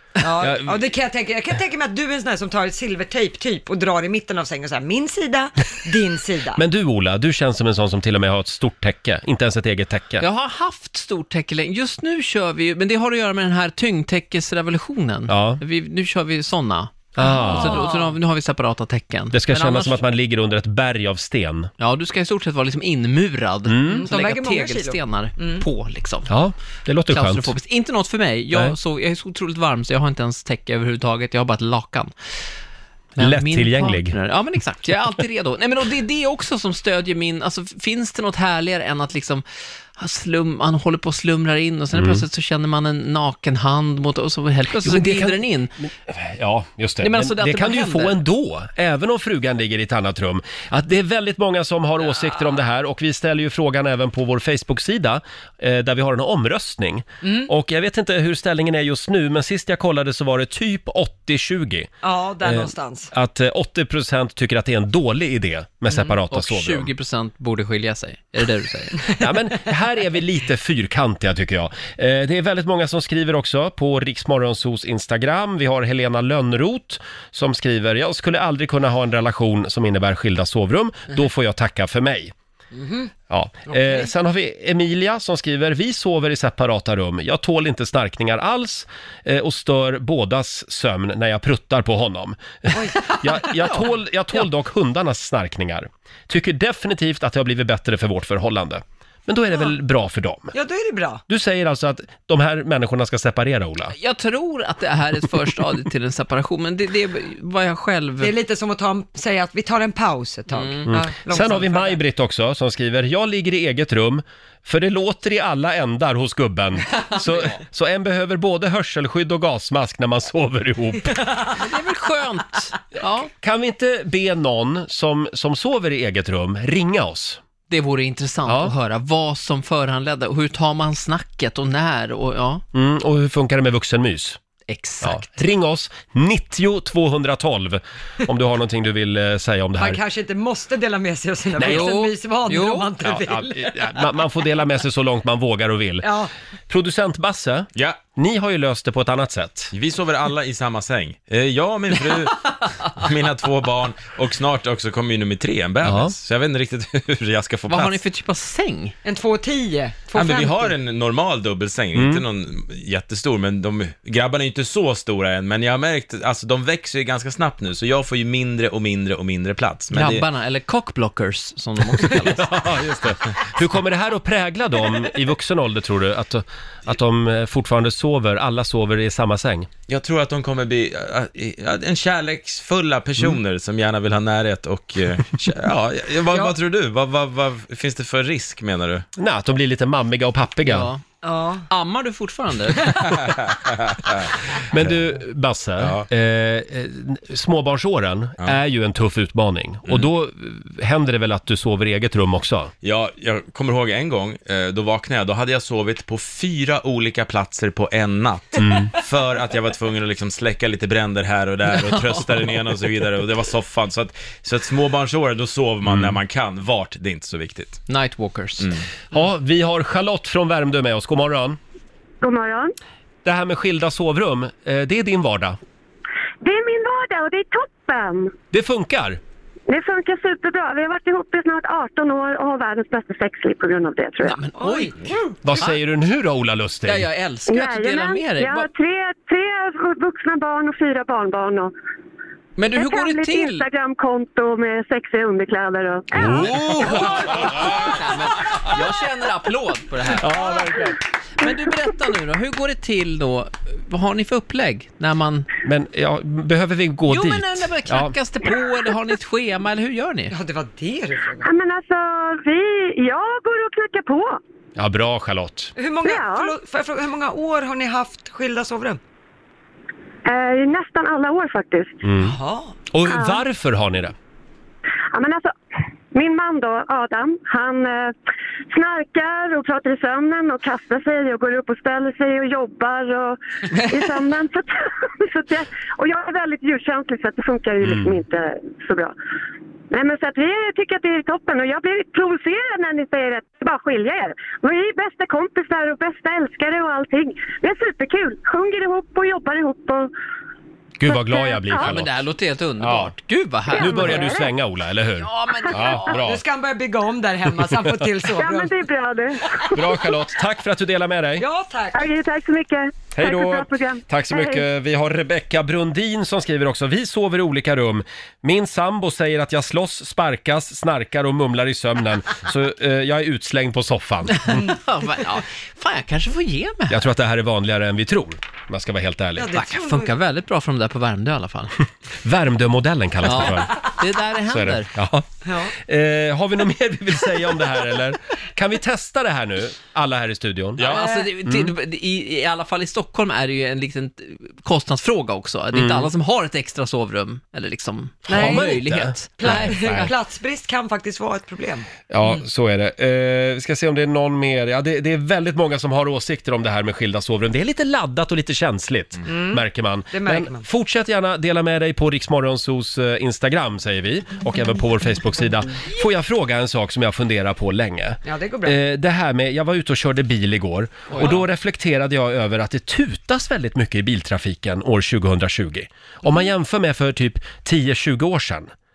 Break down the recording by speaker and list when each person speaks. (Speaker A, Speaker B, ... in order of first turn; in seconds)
Speaker A: 0.2-6.6, 17.2-18.1, 23.9-25.6, 57.2-57.5, 62.0-63.1, 82.7-83.1, 83.7-84.1, 92.7-93.5, 100.5-101.2, 108.2-112.0, 139.8-143.9, 146.0-146.3, 159.0-160.7, 191.2-191.7, 234.6-234.9, 260.3-261.5, 265.8-269.0, 272.2-272.7, 306.2-308.8, 311.4-312.0, 329.4-330.1, 335.4-335.7, 340.8-341.3, 348.3-348.8, 349.4-351.9, 359.2-360.7, 368.2-368.8
Speaker B: 0.4-0.8, 6.6-10.2, 15.3-15.6, 17.1-17.9, 19.3-21.7, 23.7-24.1, 26.3-27.5, 33.2-34.1, 41.9-42.2, 44.8-45.4, 46.1-61.9, 62.4-66.9, 69.2-82.3, 83.3-100.5, 101.3-103.9, 110.9-121.3, 123.4-127.4, 128.5-128.7, 132.7-134.4, 135.0-140.0, 141.6-141.9, 143.0-146.1, 146.7-149.7, 155.8-156.1, 161.9-162.2, 172.1-179.7, 189.2-190.9, 194.7-202.7, 208.6-208.9, 215.9-216.1, 219.1-221.6, 223.2-225.6, 228.5-229.2, 235.4-237.1, 246.2-247.4, 250.2-251.0, 255.6-258.1, 264.8-265.7, 272.0-272.3, 272.9-274.1, 287.8-288.2, 301.0-302.1, 302.8-303.1, 303.7-306.4, 309.7-311.4, 313.1-324.6, 326.9-329.5, 332.2-333.7, 334.5-340.9, 341.4-341.7, 345.7-346.1, 348.3-350.1, 352.1-378.7
Speaker C: 10.2-20.0, 21.8-26.3, 27.1-32.1, 33.2-39.4, 40.0-45.7, 47.0-48.2, 66.3-69.1, 103.9-108.3, 110.5-110.9, 116.9-117.6, 121.5-123.3, 127.7-132.6, 134.7-135.3, 141.6-142.9, 157.7-158.9, 169.9-172.5, 190.6-191.0, 191.7-193.2, 211.7-212.6, 217.9-218.7, 234.2-235.8, 236.8-238.7, 242.6-243.6, 246.2-250.5, 251.4-255.5, 257.1-260.3, 283.7-284.1, 301.7-304.3, 305.2-306.1, 324.3-327.1, 329.5-331.7, 333.2-334.9, 340.8-350.1, 371.1-371.4
Speaker D: 149.7-158.0, 160.1-170.3, 179.9-189.0, 193.2-194.9, 195.8-196.1, 202.8-217.8
Speaker E: 222.2-222.7, 226.4-228.3, 229.7-234.4, 237.5-241.7, 242.7-246.7, 261.4-264.4, 266.0-266.5, 270.2-272.0, 273.1-273.4, 275.1-275.5, 276.1-278.1, 278.7-289.1, 289.9-300.1, 301.1-301.9, 303.7-304.5, 308.2-310.0, 311.9-314.6